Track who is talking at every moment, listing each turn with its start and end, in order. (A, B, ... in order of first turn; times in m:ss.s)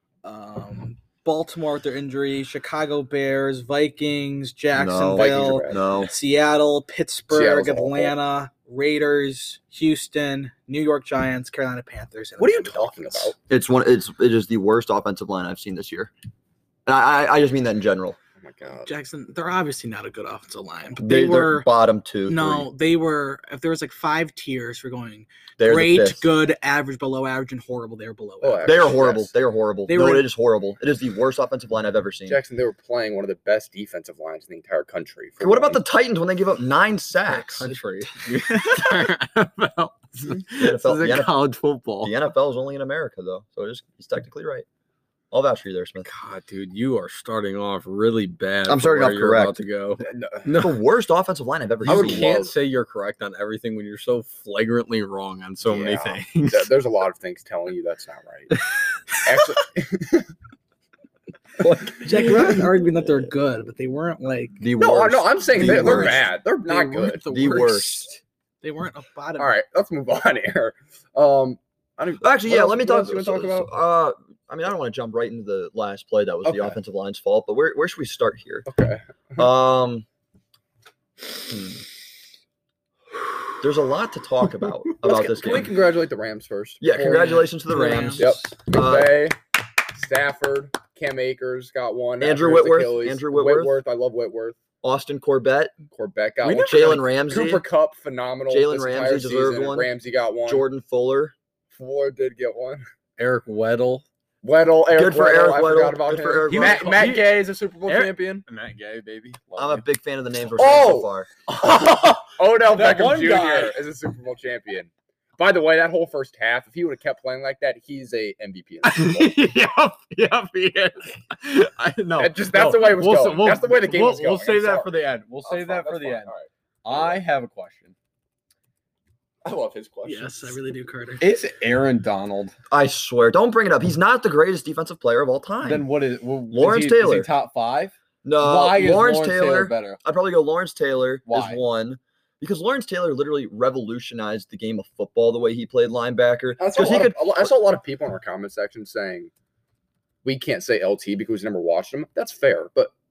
0:00.2-0:13.3 A
0:04.7-0:06.1 B
0:05.2-0:05.8 C
0:07.3-0:08.1 C
0:12.4-0:13.3 C
0:13.5-0:16.1 B
0:16.8-0:18.2 B
0:18.4-0:18.9 C
0:18.9-0:21.7 A
0:21.0-0:22.7 B
0:22.3-0:29.1 A
0:25.6-0:26.3 B
0:28.4-0:29.3 C
0:28.6-0:32.4 B
0:29.9-0:30.3 A
0:32.3-0:35.8 C
0:35.4-0:37.7 B
0:37.3-0:42.1 D
0:40.6-0:41.4 B
0:42.0-0:44.6 B
0:45.3-0:46.1 B
0:46.0-0:50.8 D
0:48.6-0:49.6 B
0:50.0-0:50.4 C
0:50.5-0:52.3 B
0:51.8-0:56.7 D
0:51.8-0:52.5 C
0:55.6-1:00.3 C
0:58.6-0:59.5 D
1:01.6-1:03.2 B
1:02.0-1:04.6 A
1:04.6-1:06.2 B
1:04.8-1:07.2 C
1:05.6-1:09.5 A
1:07.2-1:08.2 B
1:09.4-1:13.8 C
1:12.2-1:18.7 B
1:16.4-1:16.8 C
1:18.7-1:19.5 C
1:19.4-1:20.0 B
1:21.4-1:21.8 B
1:23.6-1:25.7 B
1:25.0-1:27.2 C
1:26.8-1:29.2 B
1:26.9-1:28.3 A
1:28.2-1:29.4 C
1:29.9-1:34.6 C
1:32.2-1:33.7 B
1:34.8-1:35.7 B
1:35.9-1:40.6 C
1:36.4-1:37.6 B
1:38.5-1:39.9 B
1:40.4-1:41.3 B
1:41.7-1:42.8 C
1:43.2-1:44.0 D
1:44.4-1:48.4 C
1:44.9-1:47.0 B
1:46.5-1:49.8 D
1:49.6-1:51.3 B
1:50.5-1:59.3 C
1:51.5-1:53.8 D
1:58.8-2:06.3 D
2:02.2-2:04.9 C
2:05.4-2:07.2 C
2:06.8-2:07.9 D
2:09.4-2:10.6 C
2:10.0-2:11.3 A
2:11.2-2:12.5 D
2:12.7-2:15.9 B
2:15.6-2:20.0 D
2:16.5-2:17.3 B
2:18.2-2:27.5 B
2:21.3-2:21.6 D
2:26.6-2:29.3 C
2:30.2-2:32.9 C